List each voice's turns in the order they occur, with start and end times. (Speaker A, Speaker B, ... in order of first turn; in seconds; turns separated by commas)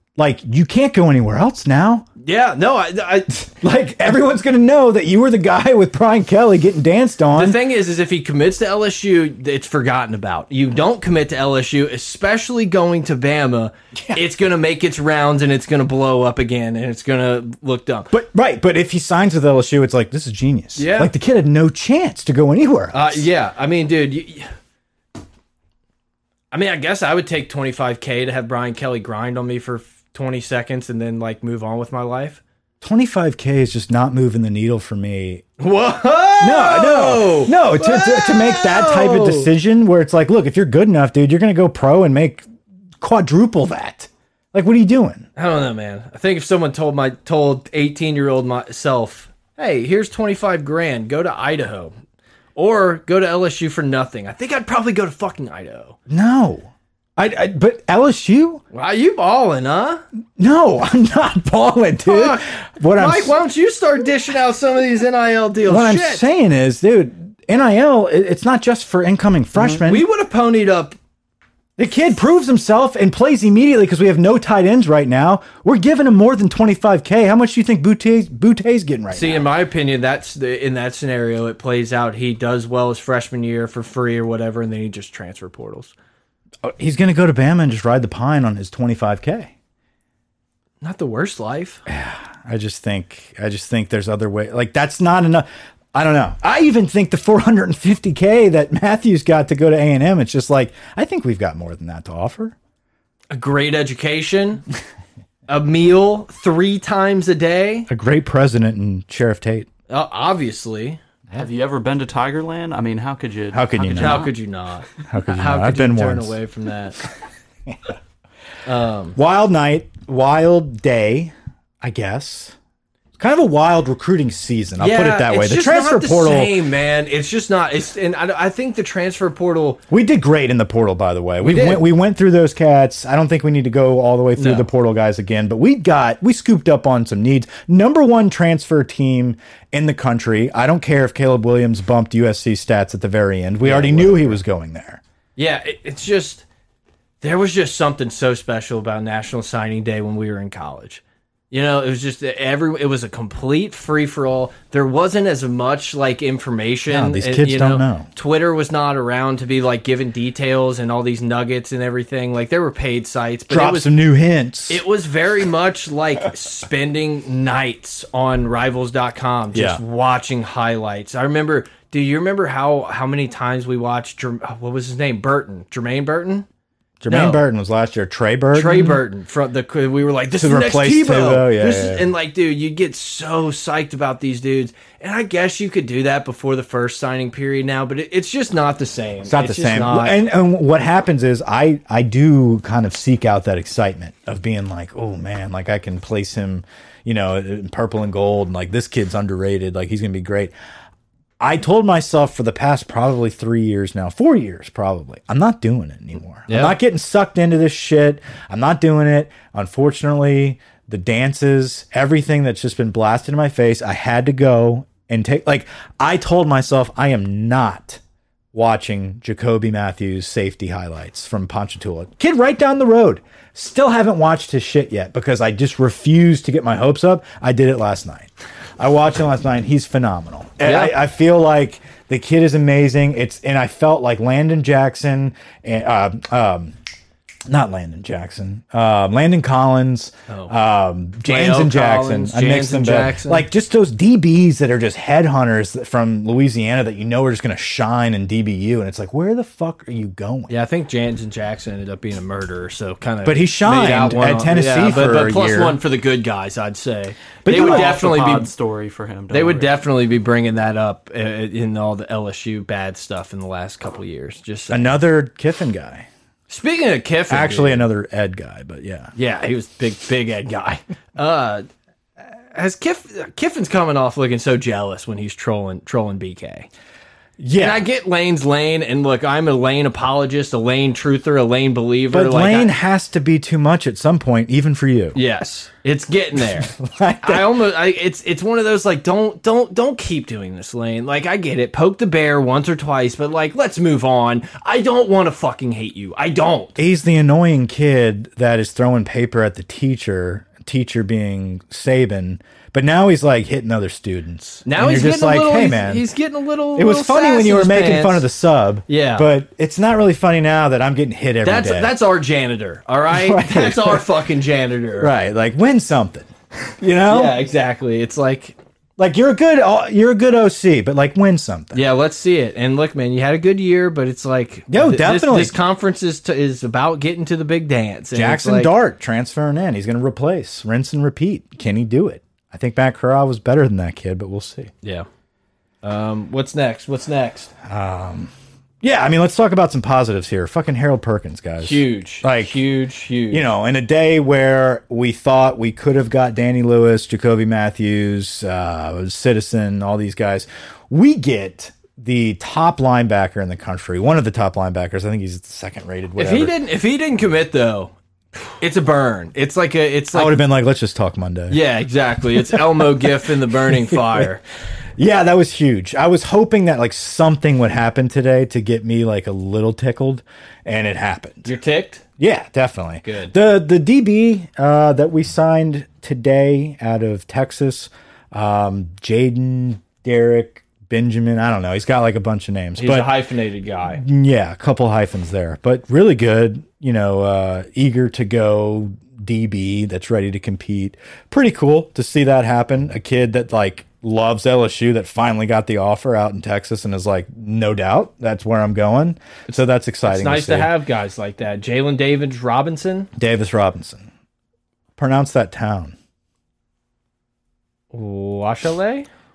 Speaker A: 0.2-2.1, Speaker B: 2.2-3.4, Speaker A: 3.4-7.6, Speaker B: 7.3-18.1, Speaker A: 18.1-23.3, Speaker B: 20.8-21.1, Speaker B: 22.9-24.5, Speaker B: 26.5-32.4, Speaker A: 32.8-35.5, Speaker B: 35.6-39.5, Speaker A: 36.4-42.5, Speaker A: 43.0-45.3, Speaker B: 45.4-51.9, Speaker B: 52.6-56.0, Speaker A: 56.1-58.6, Speaker B: 58.7-60.0, Speaker A: 60.4-63.4, Speaker B: 62.0-66.2, Speaker A: 65.7-70.1, Speaker B: 69.6-71.0, Speaker A: 71.8-79.5, Speaker B: 79.1-85.9, Speaker A: 86.6-89.5, Speaker B: 90.8-91.8, Speaker A: 91.9-102.5, Speaker B: 103.3-104.6, Speaker B: 105.5-107.9, Speaker A: 107.9-109.7, Speaker B: 109.9-111.0, Speaker C: 111.3-114.3, Speaker A: 113.5-114.3, Speaker B: 113.9-117.0, Speaker A: 115.1-116.3, Speaker B: 118.7-119.2, Speaker A: 119.2-122.5, Speaker A: 123.2-126.6, Speaker B: 124.8-129.8, Speaker A: 129.9-145.0, Speaker B: 131.4-131.8, Speaker B: 134.4-134.7, Speaker B: 143.6-144.4, Speaker B: 145.4-146.4, Speaker B: 147.2-163.9, Speaker A: 156.9-158.1, Speaker A: 163.5-164.8, Speaker B: 164.7-176.5, Speaker A: 169.5-169.8, Speaker A: 177.0-179.0, Speaker B: 177.1-177.4, Speaker B: 178.5-190.2, Speaker A: 180.4-182.1, Speaker A: 189.2-200.5, Speaker A: 201.4-218.0, Speaker B: 206.5-206.8, Speaker A: 218.5-236.8, Speaker B: 230.6-230.9, Speaker A: 237.5-250.5, Speaker B: 241.2-243.5, Speaker B: 250.5-258.5, Speaker A: 253.2-255.8, Speaker A: 257.4-258.0, Speaker C: 257.5-259.8, Speaker B: 259.3-265.0, Speaker A: 264.7-266.1, Speaker B: 266.5-267.9, Speaker A: 267.3-269.1, Speaker B: 269.2-271.7, Speaker B: 272.5-276.7, Speaker A: 277.4-277.9, Speaker B: 277.6-282.7, Speaker A: 282.1-285.2, Speaker B: 285.1-286.7, Speaker A: 286.4-287.6, Speaker B: 287.2-296.8, Speaker A: 296.8-306.1, Speaker B: 304.7-308.3, Speaker A: 306.8-311.9, Speaker B: 308.9-309.3, Speaker B: 311.4-315.1, Speaker A: 313.1-314.1, Speaker A: 315.0-316.3, Speaker A: 316.8-317.4, Speaker B: 317.1-318.6, Speaker A: 319.0-321.8, Speaker B: 321.7-328.7, Speaker A: 324.7-325.6, Speaker A: 328.1-334.7, Speaker B: 335.8-337.5, Speaker A: 337.6-342.6, Speaker B: 341.6-343.5, Speaker A: 343.3-356.5, Speaker B: 356.2-357.9, Speaker B: 358.6-360.4, Speaker A: 360.1-361.6, Speaker B: 361.5-364.4, Speaker A: 363.9-364.3, Speaker A: 365.0-371.5, Speaker B: 371.4-372.0, Speaker A: 372.2-383.2, Speaker B: 373.0-373.3, Speaker B: 382.8-384.0, Speaker A: 383.9-400.8, Speaker B: 399.5-403.1, Speaker A: 403.2-404.1, Speaker A: 405.0-406.0, Speaker B: 407.9-409.1